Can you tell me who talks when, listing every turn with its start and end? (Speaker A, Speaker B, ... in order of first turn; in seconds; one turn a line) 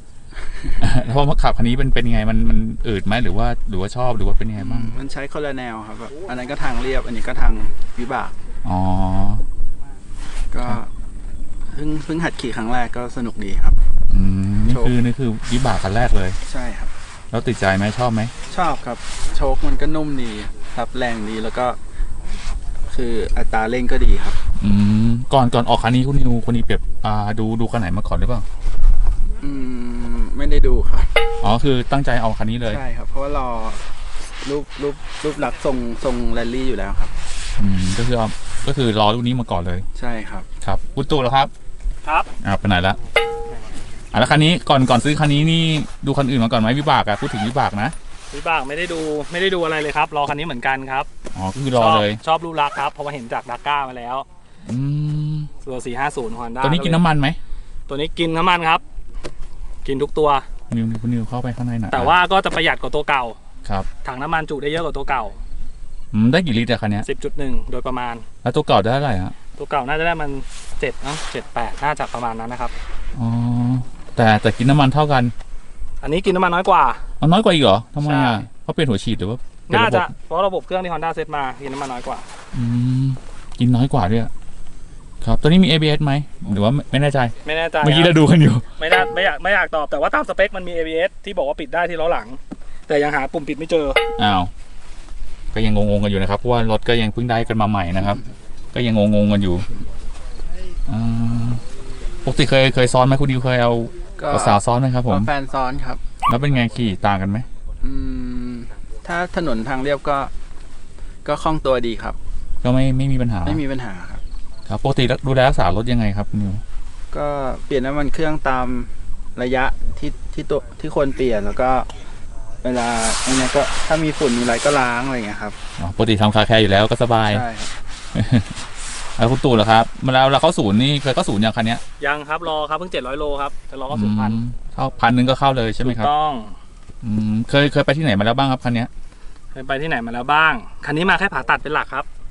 Speaker A: 0.4-0.9
Speaker B: 0.8-5.0
Speaker A: 4.6-8.4
Speaker B: 8.6-9.5
Speaker A: 10.5-10.9
Speaker A: 11.7-13.8
Speaker B: 14.1-16.4
Speaker A: 16.4-16.9
Speaker B: 17.3-18.3
Speaker A: 18.5-21.8
Speaker A: 22.9-24.4
Speaker B: 24.6-28.5
Speaker A: 29.4-31.2
Speaker B: 31.4-32.8
Speaker A: 32.6-37.1
Speaker B: 37.6-39.9
Speaker A: 40.0-40.5
Speaker B: 40.6-41.5
Speaker C: 42.0-42.3
Speaker B: 42.4-43.0
Speaker B: 44.1-48.0
Speaker C: 48.3-51.1
Speaker B: 51.3-52.2
Speaker C: 51.7-54.3
Speaker B: 54.6-55.5
Speaker C: 55.6-57.0
Speaker B: 56.6-57.4
Speaker C: 57.9-58.8
Speaker C: 59.9-60.5
Speaker B: 60.7-62.2
Speaker C: 61.9-63.4
Speaker C: 64.0-65.4
Speaker B: 66.1-67.1
Speaker C: 67.0-68.3
Speaker B: 68.4-69.3
Speaker C: 69.6-72.8
Speaker B: 73.2-75.3
Speaker C: 76.0-77.0
Speaker B: 77.2-80.1
Speaker C: 78.0-78.5
Speaker C: 79.7-82.2
Speaker B: 82.5-84.3
Speaker B: 85.2-88.7
Speaker C: 87.4-88.2
Speaker C: 88.8-94.0
Speaker B: 94.2-94.5
Speaker B: 95.5-99.7
Speaker B: 100.9-101.7
Speaker B: 102.2-105.3
Speaker A: 104.2-106.0
Speaker B: 106.2-107.5
Speaker A: 107.8-110.3
Speaker A: 111.2-112.2
Speaker B: 112.6-113.6
Speaker A: 113.4-114.2
Speaker B: 114.7-116.6
Speaker A: 117.1-121.9
Speaker A: 122.6-125.6
Speaker B: 125.8-127.5
Speaker A: 127.3-127.8
Speaker B: 128.1-128.6
Speaker B: 129.2-131.8
Speaker C: 132.0-134.4
Speaker B: 133.9-136.1
Speaker C: 135.8-136.6
Speaker B: 137.0-138.9
Speaker C: 139.5-142.1